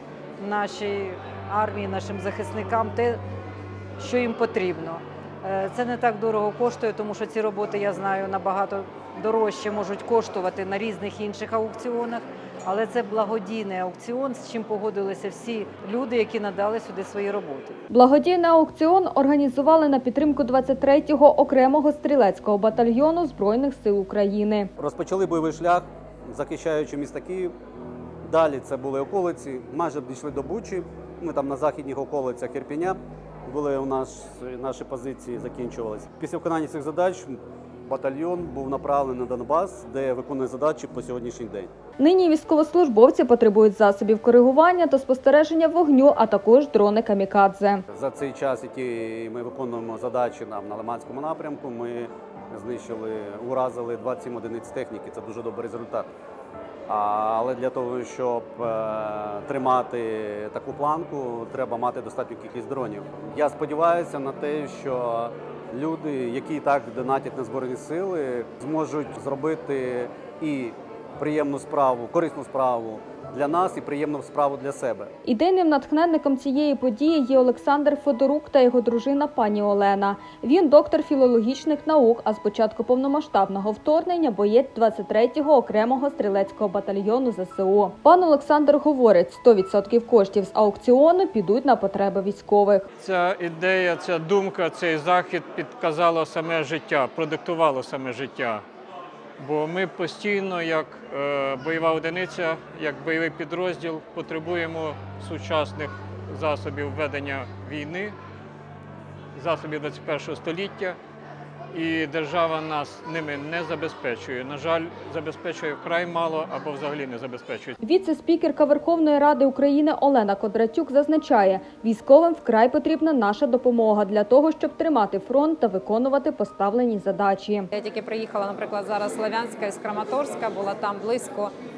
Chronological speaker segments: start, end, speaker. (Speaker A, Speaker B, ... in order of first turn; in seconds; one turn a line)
Speaker A: 0.4-3.2
Speaker A: 4.0-17.8
Speaker B: 17.9-24.7
Speaker C: 24.8-27.5
Speaker C: 28.2-41.7
Speaker B: 42.0-47.8
Speaker C: 47.9-56.1
Speaker C: 56.9-75.1
Speaker B: 75.2-92.9
Speaker D: 93.0-98.6
Speaker D: 99.4-108.2
Speaker D: 109.3-111.0
Speaker D: 111.7-117.8
Speaker B: 117.8-127.7
Speaker E: 127.7-131.5